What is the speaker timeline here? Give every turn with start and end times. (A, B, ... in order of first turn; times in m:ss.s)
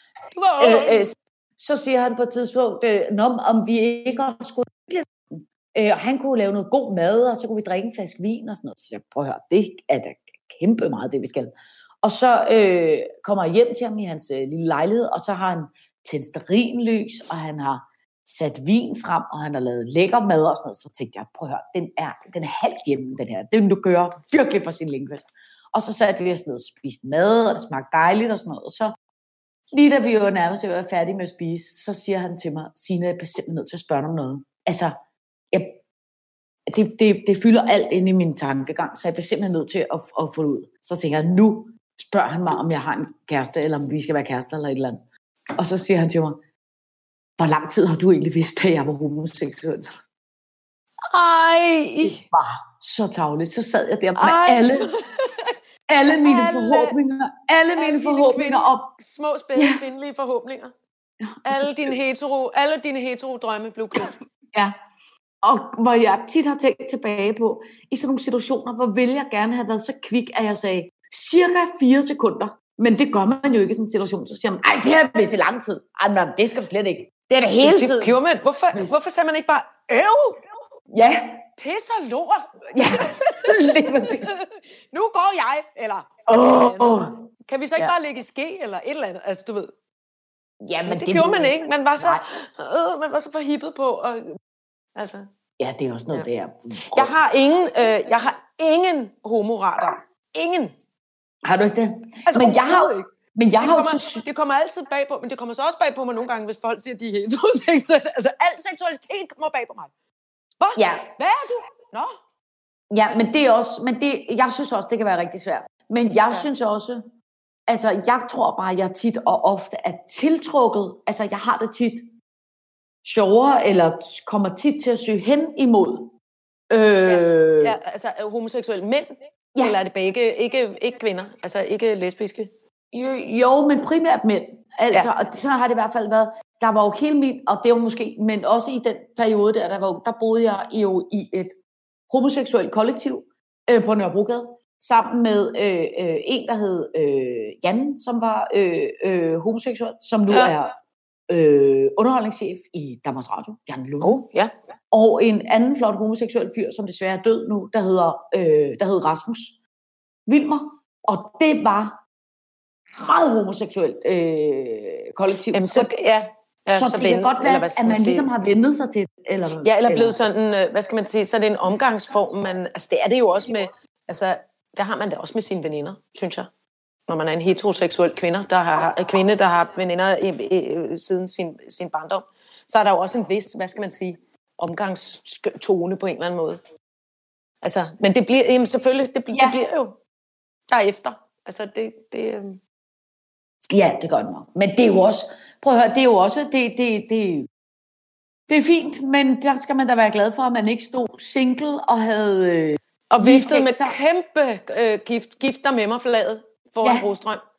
0:00.3-0:01.1 A
0:00.6-0:28.9 B
0:29.7-0:35.0 B
0:35.5-0:35.8 B
0:36.7-0:45.0 B
0:45.6-0:46.4 B
0:47.4-0:49.9 B
0:51.1-0:52.2 A
0:52.0-0:54.9 B
0:54.2-0:55.5 A
0:55.9-0:58.9 B
0:56.2-0:57.0 A
0:57.7-1:00.7 A
0:59.5-0:59.8 B
1:01.2-1:02.0 B
1:01.4-1:04.1 A
1:04.0-1:04.7 B
1:05.4-1:18.2 B
1:17.6-1:20.4 A
1:20.9-1:21.4 B
1:21.6-1:26.9 A
1:22.7-1:24.4 B
1:26.2-1:27.1 B
1:27.5-1:29.7 A
1:30.6-1:32.2 B
1:30.9-1:34.4 A
1:35.0-1:35.3 A
1:35.6-1:37.1 B
1:36.9-1:40.7 A
1:41.4-1:44.1 B
1:42.2-1:43.1 A
1:43.6-1:49.9 A
1:50.6-1:52.2 A
1:50.8-1:51.1 B
1:52.9-1:57.0 B
1:57.7-2:02.1 B
2:03.0-2:06.1 B
2:06.7-2:07.7 B
2:07.0-2:12.5 A
2:12.9-2:21.6 B
2:22.1-2:30.7 B
2:30.3-2:30.5 A
2:31.3-2:34.2 B
2:34.0-2:34.5 A
2:34.9-2:39.6 B
2:40.3-2:42.0 B
2:43.0-2:45.9 B
2:45.5-2:48.3 A
2:46.7-2:50.2 B
2:49.6-2:56.5 A
2:57.1-3:06.6 A
3:07.6-3:10.0 A
3:09.3-3:09.6 B
3:10.7-3:12.6 A
3:13.7-3:17.5 B
3:18.5-3:24.0 B
3:23.1-3:27.4 A
3:26.8-3:27.1 B